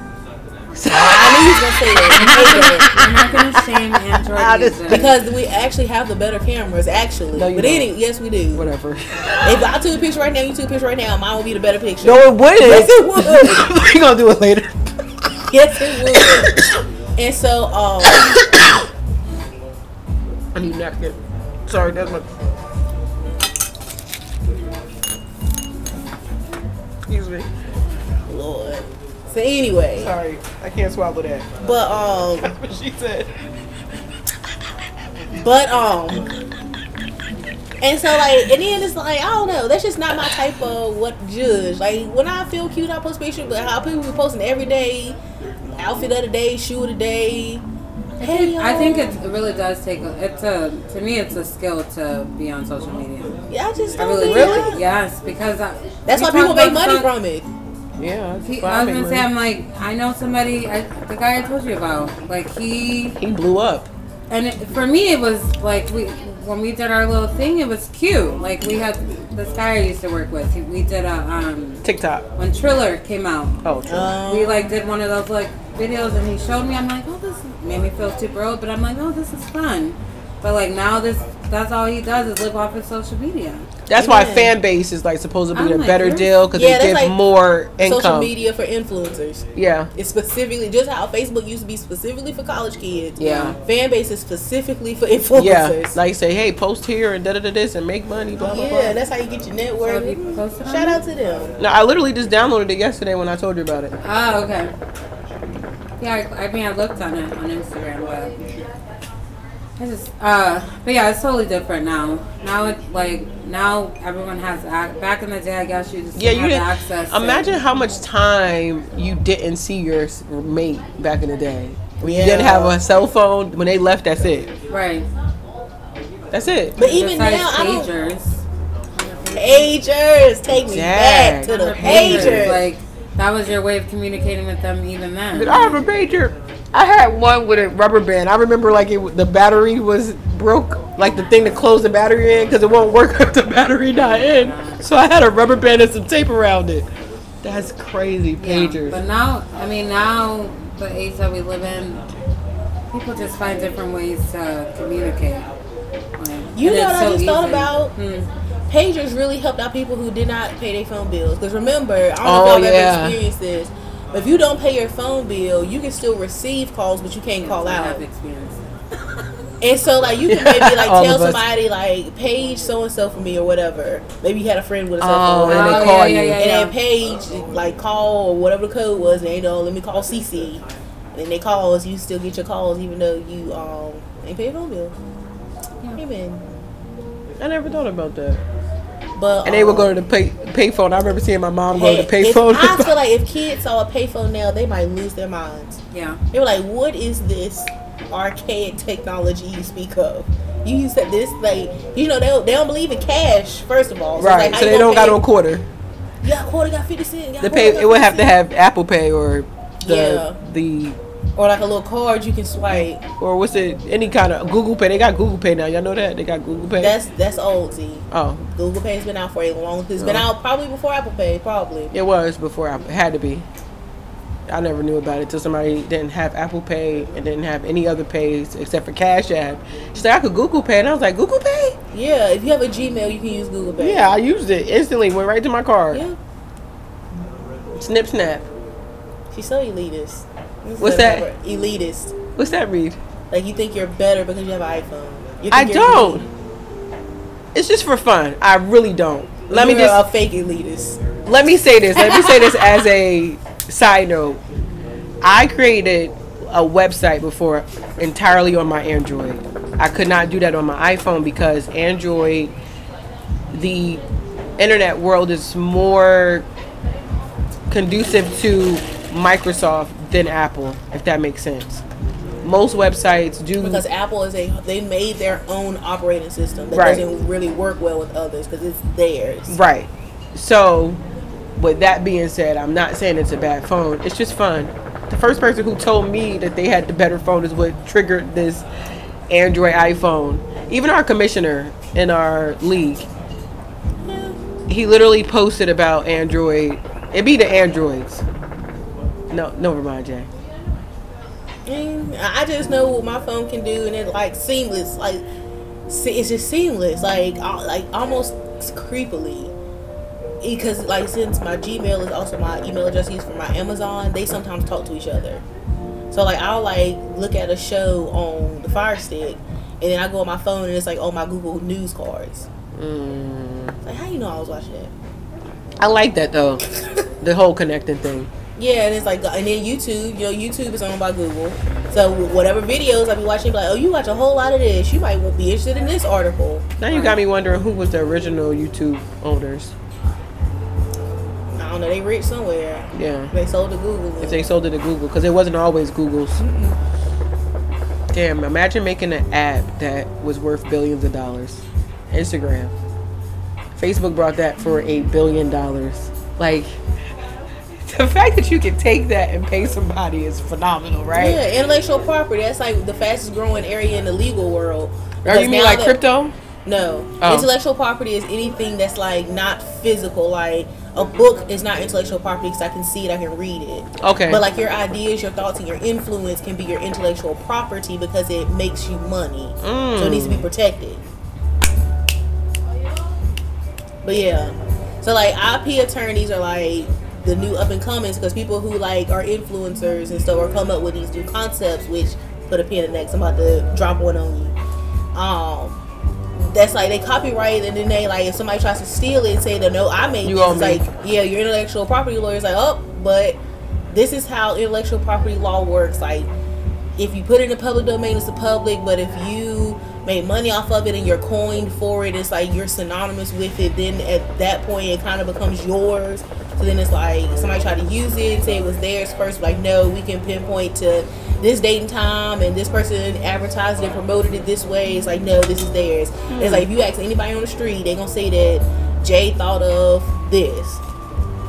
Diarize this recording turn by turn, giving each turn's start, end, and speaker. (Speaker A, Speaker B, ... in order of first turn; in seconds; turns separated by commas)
Speaker A: 0.7-2.0, Speaker B: 1.0-2.9, Speaker C: 2.1-5.2, Speaker A: 2.6-5.2, Speaker B: 4.9-8.7, Speaker A: 7.3-7.9, Speaker A: 8.5-9.6, Speaker B: 9.4-13.7, Speaker A: 12.0-14.7, Speaker B: 15.5-16.5, Speaker A: 16.1-16.7, Speaker B: 17.2-18.4, Speaker A: 18.4-18.7, Speaker A: 20.5-22.3, Speaker A: 27.1-27.5, Speaker B: 28.3-30.1, Speaker A: 29.9-31.5, Speaker B: 31.6-32.5, Speaker A: 32.4-33.3, Speaker B: 35.3-36.3, Speaker B: 37.8-45.2, Speaker B: 45.8-47.6, Speaker C: 48.2-53.4, Speaker B: 48.2-49.2, Speaker B: 53.5-54.8, Speaker C: 54.0-57.1, Speaker A: 54.1-54.7, Speaker B: 56.1-57.5, Speaker A: 58.0-59.3, Speaker C: 58.4-63.2, Speaker A: 63.2-63.9, Speaker C: 64.3-71.8, Speaker A: 71.8-72.2, Speaker C: 72.3-73.6, Speaker A: 73.6-74.2, Speaker B: 73.8-74.7, Speaker C: 74.1-83.7, Speaker A: 83.9-88.3, Speaker B: 84.0-84.5, Speaker C: 85.5-86.3, Speaker B: 86.5-87.2, Speaker B: 87.8-96.0, Speaker A: 89.5-89.9, Speaker A: 93.2-93.6, Speaker A: 95.3-99.0, Speaker B: 98.4-101.6, Speaker C: 99.8-101.0, Speaker A: 101.6-103.9, Speaker C: 104.0-104.7, Speaker C: 106.0-108.5, Speaker C: 109.8-117.6, Speaker A: 116.1-124.5, Speaker B: 122.0-122.8, Speaker C: 124.7-125.1, Speaker A: 126.3-126.8, Speaker B: 126.8-127.9, Speaker C: 126.8-128.4, Speaker C: 128.9-129.7, Speaker B: 129.3-132.7, Speaker A: 130.7-132.6, Speaker C: 131.4-135.8, Speaker A: 135.3-146.9, Speaker C: 143.9-144.8, Speaker A: 147.4-149.0, Speaker C: 148.4-152.0, Speaker C: 152.9-155.5, Speaker C: 156.2-158.3, Speaker B: 156.5-157.9, Speaker B: 158.7-168.0, Speaker A: 162.2-163.2, Speaker C: 167.4-168.8, Speaker B: 169.6-180.6, Speaker A: 170.2-171.4, Speaker A: 175.0-176.4, Speaker C: 175.4-176.7, Speaker B: 181.1-184.9, Speaker B: 185.9-186.4, Speaker A: 187.4-188.4, Speaker B: 189.2-190.0, Speaker A: 189.4-193.0, Speaker B: 191.7-195.8, Speaker C: 195.9-196.2, Speaker B: 196.3-205.2, Speaker A: 204.2-205.7, Speaker B: 206.2-208.4, Speaker A: 207.4-211.0, Speaker B: 209.8-210.4, Speaker B: 211.3-213.0, Speaker A: 212.8-217.0, Speaker B: 216.8-221.9, Speaker A: 218.1-218.4, Speaker A: 220.0-220.3, Speaker A: 221.9-223.4, Speaker A: 224.5-231.8, Speaker B: 231.9-234.2, Speaker A: 233.8-236.0, Speaker B: 235.9-236.2, Speaker A: 237.8-238.5, Speaker B: 239.3-242.2, Speaker A: 240.8-241.3, Speaker A: 242.3-243.0, Speaker B: 243.3-246.3, Speaker A: 245.5-246.2, Speaker A: 247.5-250.1, Speaker B: 249.5-251.2, Speaker A: 251.2-254.4, Speaker B: 251.9-252.6, Speaker A: 255.2-262.5, Speaker A: 263.5-264.0, Speaker A: 264.6-266.5, Speaker A: 267.7-271.8, Speaker A: 272.4-273.8, Speaker B: 273.6-279.6, Speaker A: 276.7-277.1, Speaker A: 279.5-281.0, Speaker A: 281.6-288.6, Speaker A: 289.3-293.1, Speaker B: 294.1-294.4, Speaker A: 294.7-298.2, Speaker A: 299.3-300.3, Speaker B: 301.6-305.2, Speaker B: 305.9-309.5, Speaker B: 310.4-315.4, Speaker B: 316.1-322.4, Speaker A: 322.7-323.8, Speaker B: 323.8-324.9, Speaker A: 325.8-326.6, Speaker A: 327.2-328.3, Speaker B: 328.6-336.9, Speaker A: 336.8-339.7, Speaker C: 336.9-337.2, Speaker B: 341.5-344.5, Speaker A: 342.9-343.3, Speaker A: 344.2-346.4, Speaker B: 346.4-346.8, Speaker A: 348.1-352.7, Speaker A: 353.7-356.8, Speaker A: 357.8-361.4, Speaker B: 361.1-366.0, Speaker A: 365.2-366.3, Speaker B: 366.6-381.0, Speaker A: 367.2-367.5, Speaker A: 374.0-374.4, Speaker A: 379.6-380.5, Speaker B: 384.0-394.5, Speaker B: 395.1-395.8, Speaker B: 396.4-403.4, Speaker A: 400.2-400.9, Speaker B: 403.9-406.3, Speaker B: 407.0-430.8, Speaker A: 426.3-426.7